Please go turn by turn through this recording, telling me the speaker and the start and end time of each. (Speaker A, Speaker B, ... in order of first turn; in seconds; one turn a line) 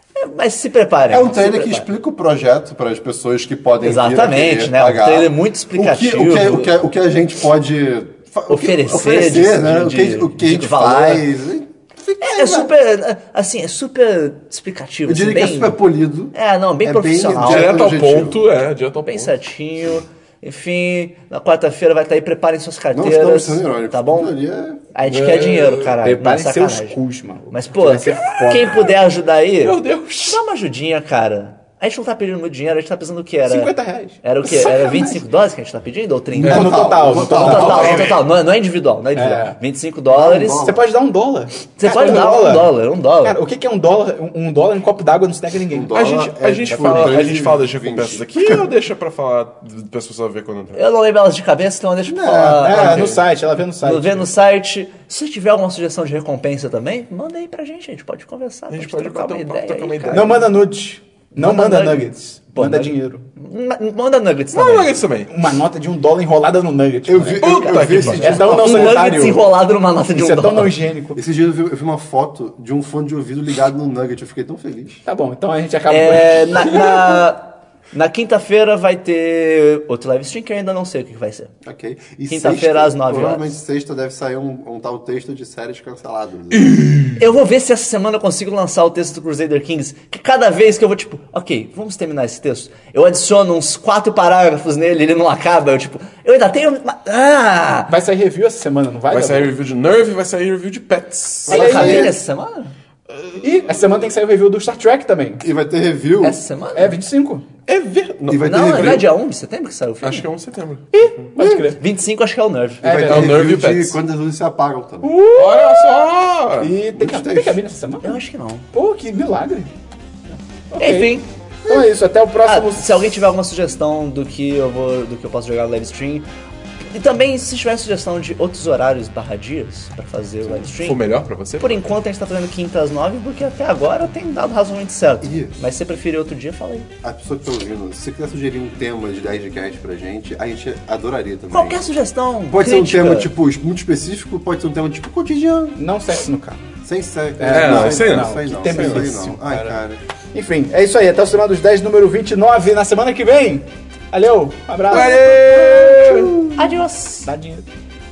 Speaker A: 0.1-1.9
Speaker B: 1.1-12.7
Speaker A: 3.8-6.7
Speaker A: 8.5-11.2
Speaker A: 12.2-15.8
Speaker B: 15.1-18.4
Speaker A: 16.3-17.9
Speaker C: 17.4-19.3
Speaker A: 19.0-24.3
Speaker B: 22.9-24.8
Speaker A: 24.9-27.0
Speaker C: 25.0-25.9
Speaker D: 26.0-28.9
Speaker A: 27.5-40.7
Speaker C: 28.2-28.9
Speaker C: 29.6-30.4
Speaker D: 33.4-35.3
Speaker D: 36.3-38.2
Speaker B: 36.4-38.2
Speaker C: 37.5-38.1
Speaker D: 39.1-39.6
Speaker B: 40.1-40.8
Speaker D: 40.6-45.9
Speaker A: 41.8-43.4
Speaker B: 45.7-48.7
Speaker C: 45.9-50.8
Speaker D: 46.7-47.2
Speaker A: 50.8-53.2
Speaker B: 52.1-53.0
Speaker D: 52.5-54.3
Speaker C: 52.8-53.2
Speaker A: 53.8-60.3
Speaker C: 58.7-60.5
Speaker D: 60.1-63.2
Speaker A: 61.4-65.0
Speaker C: 64.5-65.3
Speaker D: 65.3-67.4
Speaker B: 67.1-69.0
Speaker C: 67.4-68.5
Speaker A: 67.4-70.7
Speaker D: 68.0-69.4
Speaker D: 70.1-71.2
Speaker B: 71.1-75.0
Speaker D: 75.0-77.2
Speaker A: 75.9-81.5
Speaker B: 81.6-86.7
Speaker A: 82.3-83.5
Speaker C: 86.5-87.2
Speaker A: 87.2-97.9
Speaker D: 97.9-99.5
Speaker C: 99.1-101.8
Speaker B: 101.5-102.2
Speaker D: 101.5-102.1
Speaker A: 101.5-102.7
Speaker C: 103.1-103.8
Speaker D: 103.4-105.4
Speaker B: 105.4-106.4
Speaker A: 106.2-106.9
Speaker D: 106.7-107.5
Speaker C: 107.7-109.1
Speaker B: 108.3-109.1
Speaker A: 108.4-110.2
Speaker C: 110.0-111.3
Speaker D: 110.9-111.8
Speaker B: 111.4-111.6
Speaker A: 111.4-112.9
Speaker D: 112.8-113.4
Speaker B: 112.8-115.1
Speaker C: 113.0-114.0
Speaker D: 115.0-116.0
Speaker C: 115.3-116.7
Speaker D: 116.6-119.7
Speaker B: 116.9-117.6
Speaker A: 118.0-118.6
Speaker D: 120.7-121.1
Speaker A: 120.8-121.3
Speaker B: 121.6-121.9
Speaker D: 121.7-123.0
Speaker A: 122.4-126.2
Speaker A: 126.9-131.0
Speaker C: 130.5-131.8
Speaker A: 131.6-136.9
Speaker B: 135.2-135.6
Speaker B: 137.0-141.9
Speaker A: 141.5-143.3
Speaker B: 142.5-145.8
Speaker D: 145.8-146.6
Speaker B: 146.8-150.0
Speaker D: 147.4-149.8
Speaker C: 147.4-149.1
Speaker D: 150.3-156.3
Speaker C: 154.9-156.3
Speaker B: 155.8-156.5
Speaker A: 156.5-157.3
Speaker D: 157.2-157.7